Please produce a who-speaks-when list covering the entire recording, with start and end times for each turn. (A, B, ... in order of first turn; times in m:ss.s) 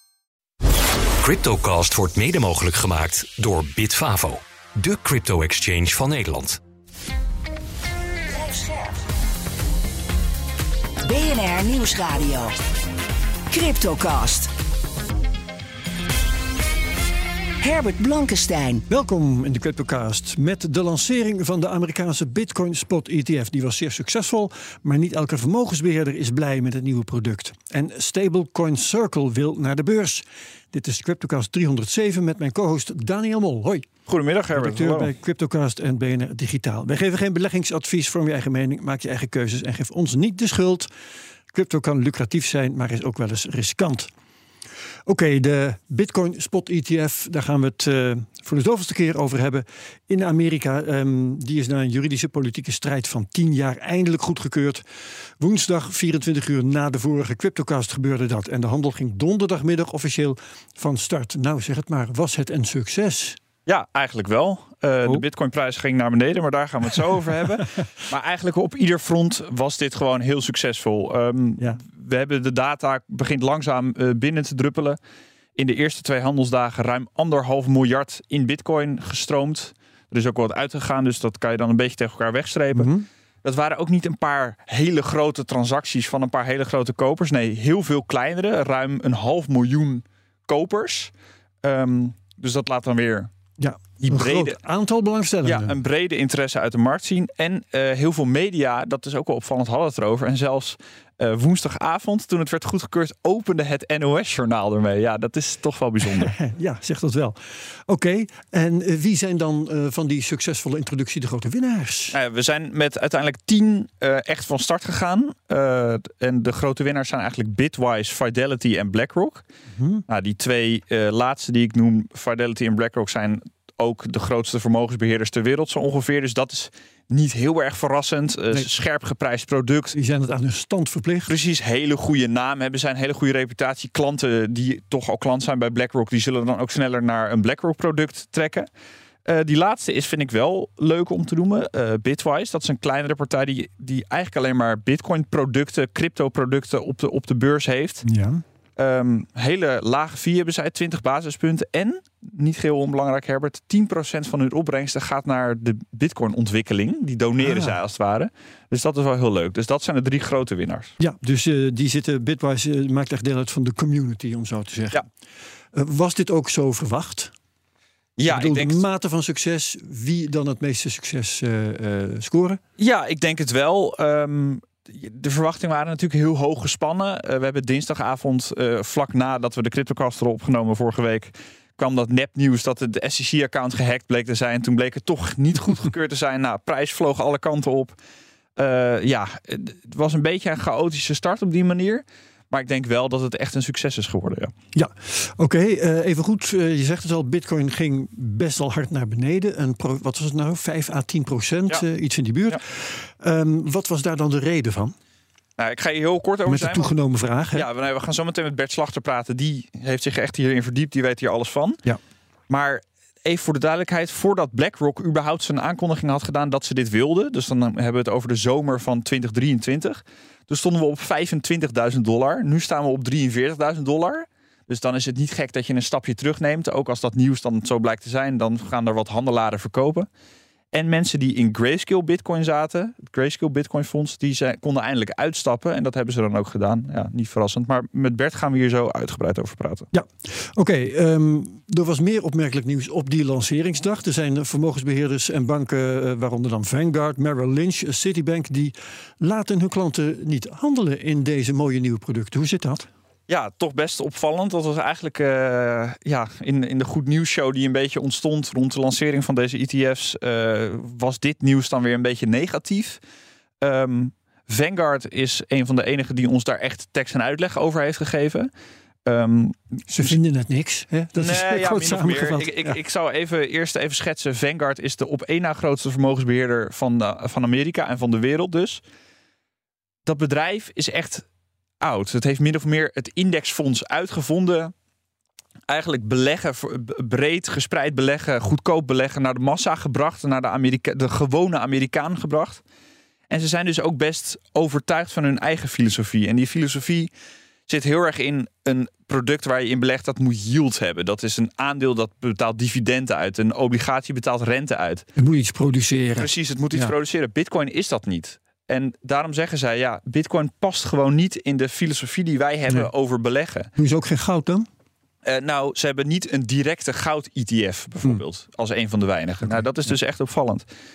0:01.2-0:06.6 A
0:08.3-0:09.0 B
0:11.0-0:12.5 B
0:13.5-0:14.5 B
0:17.6-0:18.8 B
0:18.9-0:33.9 C
0:34.1-0:35.1 D
0:34.5-0:40.9 C
0:41.5-0:44.1 C
0:45.1-0:54.8 C
0:55.4-1:03.4 C
1:03.6-1:15.0 D
1:15.6-1:22.9 D
1:22.7-1:23.0 C
1:23.4-1:31.1 D
1:31.6-1:33.3 D
1:33.6-1:35.8 C
1:34.0-1:34.6 D
1:35.4-1:46.4 D
1:46.2-1:52.1 C
1:52.1-1:59.4 D
1:59.7-2:00.0 C
2:00.1-2:10.0 D
2:09.9-2:11.3 C
2:11.3-2:18.7 D
2:19.2-2:28.0 D
2:28.0-2:28.4 C
2:28.8-2:40.9 D
2:37.4-2:37.8 C
2:41.0-2:45.0 C
2:45.7-2:47.3 C
2:48.2-2:48.8 D
2:48.3-2:52.6 C
2:52.8-3:08.0 D
3:08.6-3:14.5 D
3:14.7-3:24.9 C
3:25.6-3:26.9 D
3:26.4-3:27.7 C
3:27.5-3:31.8 D
3:32.5-3:50.1 D
3:50.7-3:59.9 D
3:59.9-4:12.9 C
4:13.3-4:23.0 D
4:23.6-4:28.5 D
4:29.0-4:30.2 D
4:29.9-4:32.8 C
4:31.2-4:38.8 D
4:40.0-4:41.2 D
4:41.8-4:44.7 D
4:45.7-4:52.6 D
4:53.3-4:57.1 D
4:57.7-5:05.0 D
5:05.2-5:06.9 C
5:06.2-5:13.7 D
5:13.8-5:14.7 C
5:15.2-5:20.6 D